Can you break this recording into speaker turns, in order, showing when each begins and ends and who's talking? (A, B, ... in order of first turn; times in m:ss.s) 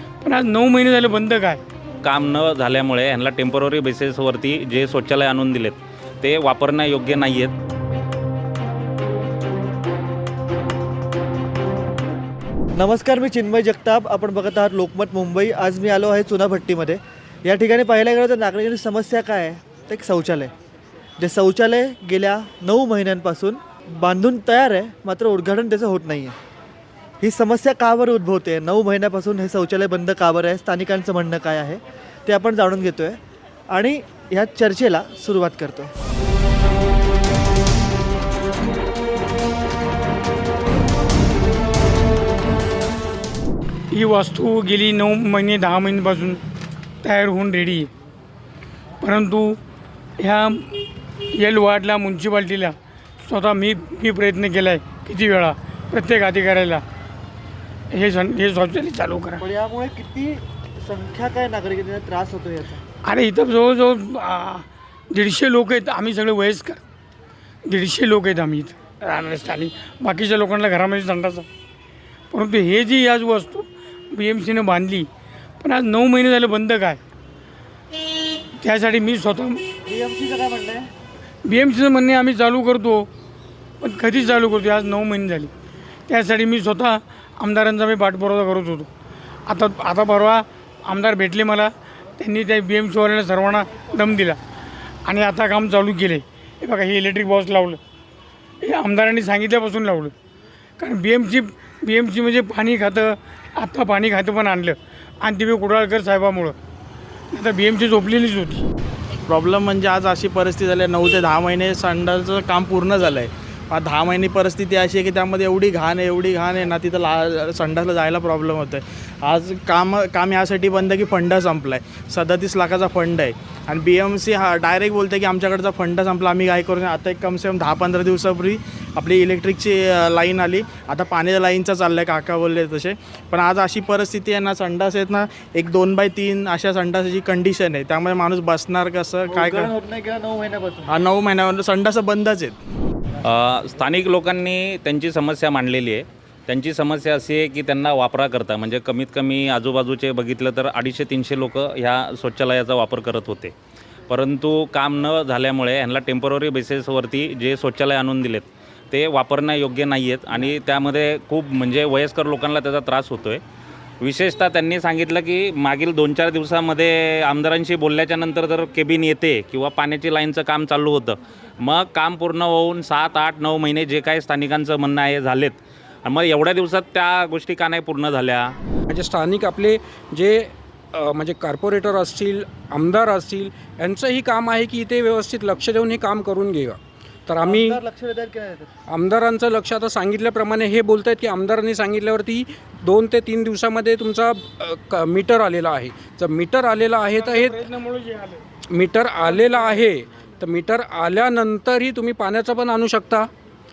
0:00.2-0:01.6 A
0:02.0-0:07.5 B
0:12.8-0:20.5 C
0:21.2-0:26.3 C
0:27.2-0:33.2 C
0:33.7-0:35.9 C
0:43.9-0:46.4 A
0:47.0-0:47.9 A
0:49.0-0:49.6 A
0:50.2-0:50.7 A
0:51.3-0:56.8 A
0:57.9-0:59.4 A
0:59.4-1:02.8 C
1:03.0-1:06.8 A
1:07.7-1:11.5 A
1:12.3-1:15.1 A
1:15.6-1:17.0 A
1:18.6-1:19.6 A
1:19.8-1:20.9 C
1:21.4-1:23.1 A
1:23.8-1:25.5 A
1:26.1-1:28.9 A
1:29.5-1:34.4 A
1:35.0-1:37.8 A
1:38.6-1:40.1 A
1:40.8-1:46.6 A
1:47.3-1:48.6 A
1:49.2-2:19.7 D
2:19.3-2:20.9 C
2:20.9-2:22.6 D
2:23.2-2:33.5 B
2:34.1-2:43.4 B
2:44.0-2:58.5 B
2:58.9-3:07.8 E
3:07.4-3:08.7 C
3:08.9-3:17.6 E
3:17.1-3:18.4 A
3:18.7-3:23.3 E